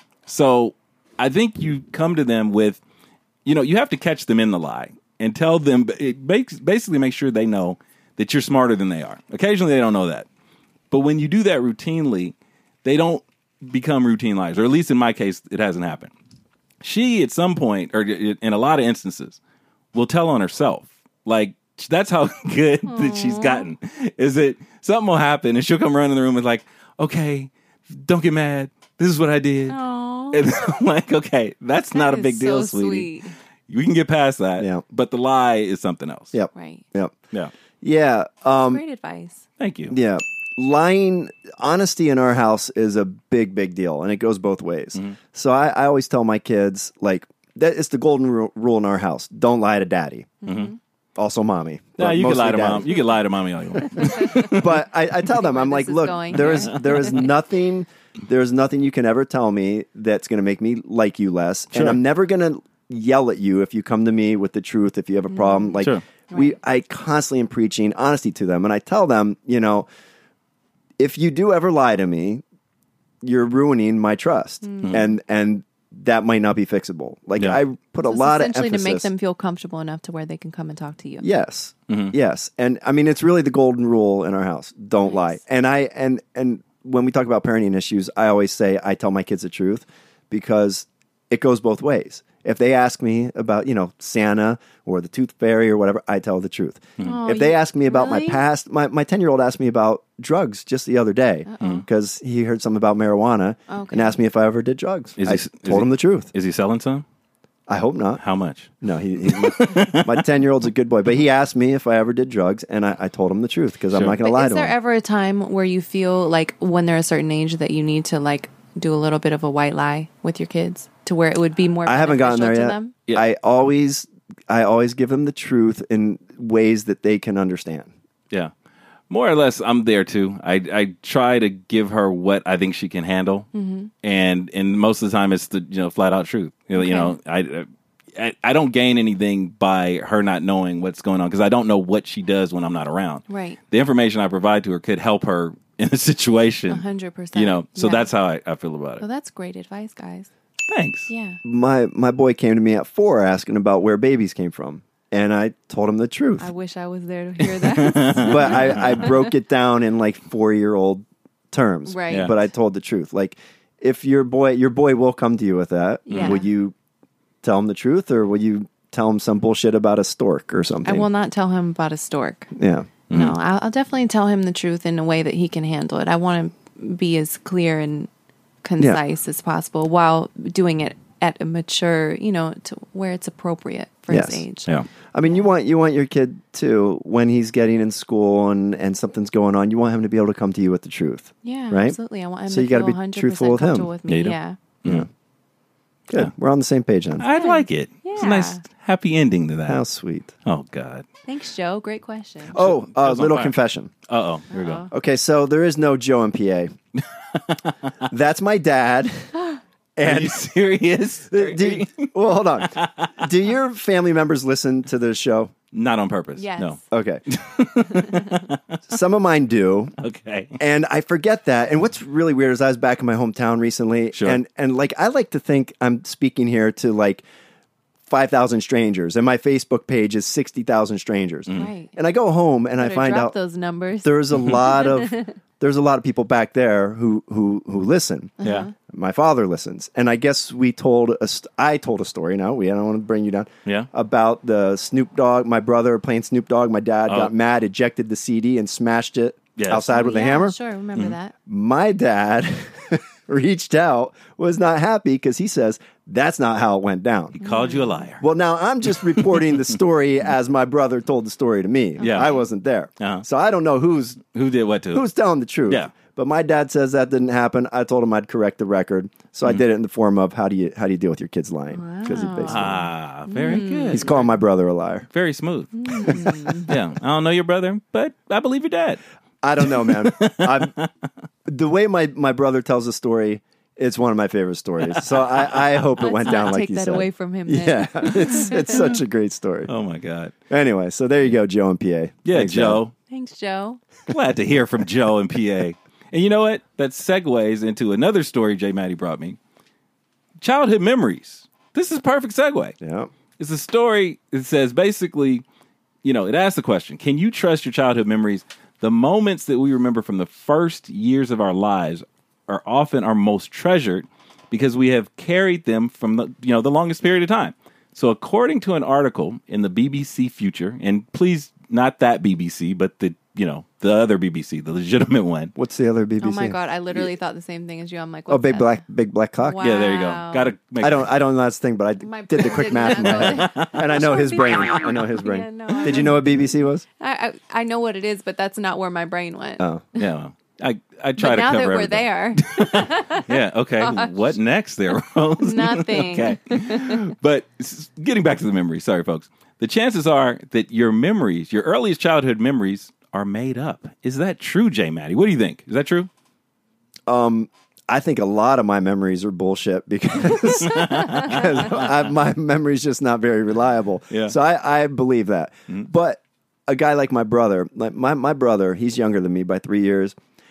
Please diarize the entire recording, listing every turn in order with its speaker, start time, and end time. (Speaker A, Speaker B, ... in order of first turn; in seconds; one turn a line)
Speaker A: 0.2-2.8
Speaker A: 3.4-10.3
Speaker A: 10.9-16.1
Speaker A: 16.8-19.4
Speaker A: 19.9-29.8
Speaker B: 22.9-23.7
Speaker B: 29.7-30.4
Speaker A: 30.3-33.1
Speaker B: 31.9-33.3
Speaker A: 33.7-36.3
Speaker C: 36.3-37.1
Speaker B: 36.5-36.8
Speaker C: 37.8-38.8
Speaker B: 38.5-39.4
Speaker A: 39.6-39.9
Speaker C: 39.9-50.4
Speaker B: 50.4-50.8
Speaker A: 50.5-50.7
Speaker C: 51.2-52.9
Speaker A: 52.0-54.8
Speaker B: 54.0-54.5
Speaker C: 54.0-69.9
Speaker B: 55.2-57.3
Speaker A: 61.7-62.0
Speaker B: 65.3-66.5
Speaker C: 71.0-72.4
Speaker C: 73.2-79.1
Speaker B: 74.6-75.0
Speaker B: 78.0-81.2
Speaker C: 81.2-106.3
Speaker A: 81.9-82.1
Speaker B: 85.0-85.3
Speaker B: 97.0-98.4
Speaker B: 101.5-101.8
Speaker B: 103.7-104.2
Speaker A: 105.2-107.0
Speaker C: 107.7-108.2
Speaker A: 108.2-110.2
Speaker C: 108.8-114.7
Speaker B: 114.2-123.0
Speaker C: 121.8-127.9
Speaker A: 129.1-133.5
Speaker B: 133.5-133.9
Speaker A: 134.0-146.8
Speaker B: 136.7-137.2
Speaker B: 143.3-143.6
Speaker B: 146.7-148.1
Speaker A: 147.3-149.0
Speaker B: 149.0-150.3
Speaker A: 150.7-151.1
Speaker B: 151.1-151.4
Speaker C: 151.4-156.5
Speaker B: 156.4-159.3
Speaker A: 157.6-159.1
Speaker C: 158.2-166.7
Speaker B: 161.9-162.3
Speaker B: 166.1-166.5
Speaker A: 166.1-166.4
Speaker C: 167.4-171.1
Speaker B: 170.8-172.5
Speaker C: 172.5-172.9
Speaker A: 173.1-173.4
Speaker B: 173.1-178.1
Speaker B: 178.6-184.7
Speaker C: 184.1-184.4
Speaker C: 185.1-192.0
Speaker B: 191.4-194.6
Speaker C: 192.5-193.9
Speaker A: 194.1-195.1
Speaker C: 196.1-197.2
Speaker A: 197.2-199.8
Speaker B: 197.3-198.6
Speaker C: 199.7-200.3
Speaker A: 200.4-201.0
Speaker B: 201.2-202.5
Speaker C: 202.5-203.9
Speaker A: 202.5-204.9
Speaker B: 204.5-204.9
Speaker C: 204.9-206.7
Speaker A: 207.3-207.9
Speaker C: 208.1-209.2
Speaker C: 209.9-210.4
Speaker A: 210.0-213.3
Speaker C: 211.3-215.5
Speaker A: 215.7-216.8
Speaker B: 216.3-216.9
Speaker C: 216.9-217.2
Speaker A: 217.3-218.8
Speaker C: 218.9-219.9
Speaker A: 220.0-220.6
Speaker C: 220.6-227.2
Speaker A: 224.1-224.4
Speaker C: 228.1-233.3
Speaker B: 231.5-231.9
Speaker B: 232.8-235.3
Speaker C: 234.0-250.6
Speaker B: 238.4-238.7
Speaker A: 238.4-238.7
Speaker A: 247.1-247.3
Speaker A: 249.6-249.9
Speaker B: 249.8-251.3
Speaker C: 251.4-257.4
Speaker A: 257.4-258.2
Speaker B: 257.4-258.0
Speaker C: 258.2-264.2
Speaker A: 258.9-259.7
Speaker B: 262.0-262.4
Speaker A: 262.0-262.3
Speaker A: 263.0-263.2
Speaker A: 264.3-265.0
Speaker C: 264.9-272.8
Speaker B: 271.7-274.2
Speaker A: 272.5-274.2
Speaker C: 273.9-275.1
Speaker A: 275.1-279.0
Speaker B: 275.7-276.7
Speaker C: 276.1-276.5
Speaker C: 279.4-280.7
Speaker A: 279.6-280.9
Speaker C: 281.4-289.7
Speaker A: 284.9-285.6
Speaker B: 286.0-288.9
Speaker A: 288.6-288.9
Speaker A: 289.7-290.3
Speaker C: 290.5-292.8
Speaker A: 292.2-292.9
Speaker B: 293.1-293.8
Speaker A: 294.1-299.4
Speaker A: 300.4-302.8
Speaker C: 302.8-303.1
Speaker A: 303.4-305.4
Speaker A: 306.0-325.5
Speaker C: 325.6-327.1
Speaker B: 326.2-328.8
Speaker C: 328.3-329.6
Speaker B: 329.4-330.5
Speaker A: 329.6-331.1
Speaker C: 330.8-336.8
Speaker B: 332.0-340.1
Speaker A: 332.9-333.8
Speaker A: 339.9-356.1
Speaker B: 341.2-344.3
Speaker B: 345.4-347.1
Speaker C: 357.1-370.1
Speaker A: 360.6-362.1